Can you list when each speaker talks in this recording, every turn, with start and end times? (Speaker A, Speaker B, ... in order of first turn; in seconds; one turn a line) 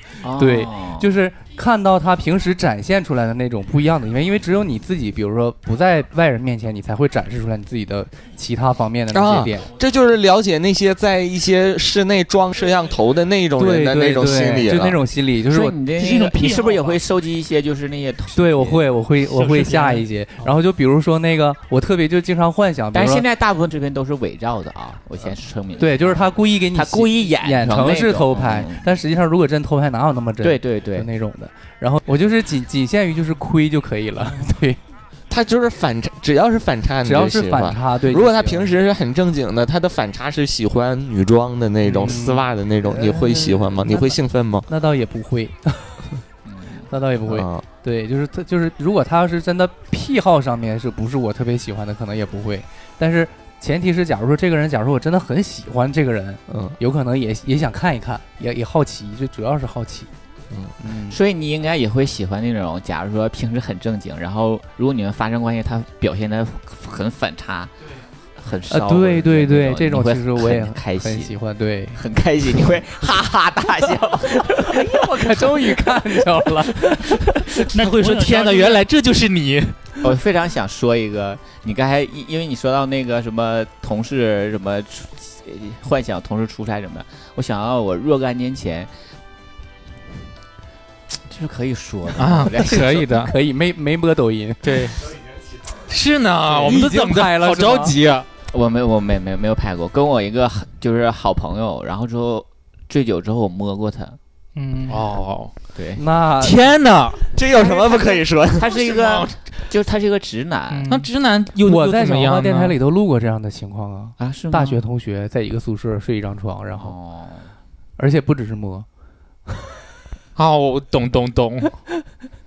Speaker A: 0.2-1.1
Speaker B: 0.4-9.7
Speaker C: 9.1-15.0
Speaker B: 13.6-15.8
Speaker A: 15.5-18.9
Speaker D: 15.9-17.0
Speaker B: 18.3-23.2
Speaker D: 19.2-20.5
Speaker A: 22.9-28.8
Speaker B: 25.8-34.8
Speaker A: 30.4-31.1
Speaker C: 35.3-44.7
Speaker B: 37.0-38.7
Speaker B: 41.8-46.0
Speaker D: 42.0-42.3
Speaker A: 46.4-46.9
Speaker B: 46.9-60.1
Speaker C: 47.2-47.6
Speaker C: 56.5-56.8
Speaker B: 60.8-61.2
Speaker A: 61.1-67.7
Speaker A: 68.4-71.3
Speaker B: 68.7-72.0
Speaker A: 71.9-74.9
Speaker B: 74.5-77.5
Speaker E: 77.6-79.8
Speaker D: 77.7-78.8
Speaker A: 80.0-88.9
Speaker A: 91.3-93.1
Speaker E: 92.2-93.3
Speaker B: 92.7-94.7
Speaker E: 94.6-95.1
Speaker E: 95.9-98.3
Speaker B: 96.5-98.0
Speaker A: 98.5-104.2
Speaker D: 104.5-105.1
Speaker E: 104.9-105.5
Speaker A: 105.7-106.0
Speaker B: 106.0-106.6
Speaker E: 106.4-107.2
Speaker C: 107.3-108.7
Speaker A: 107.5-110.9
Speaker E: 108.7-109.3
Speaker D: 110.7-111.1
Speaker E: 110.9-112.8
Speaker B: 111.6-116.9
Speaker A: 114.2-114.8
Speaker A: 116.8-117.5
Speaker B: 118.0-118.8
Speaker E: 120.3-121.7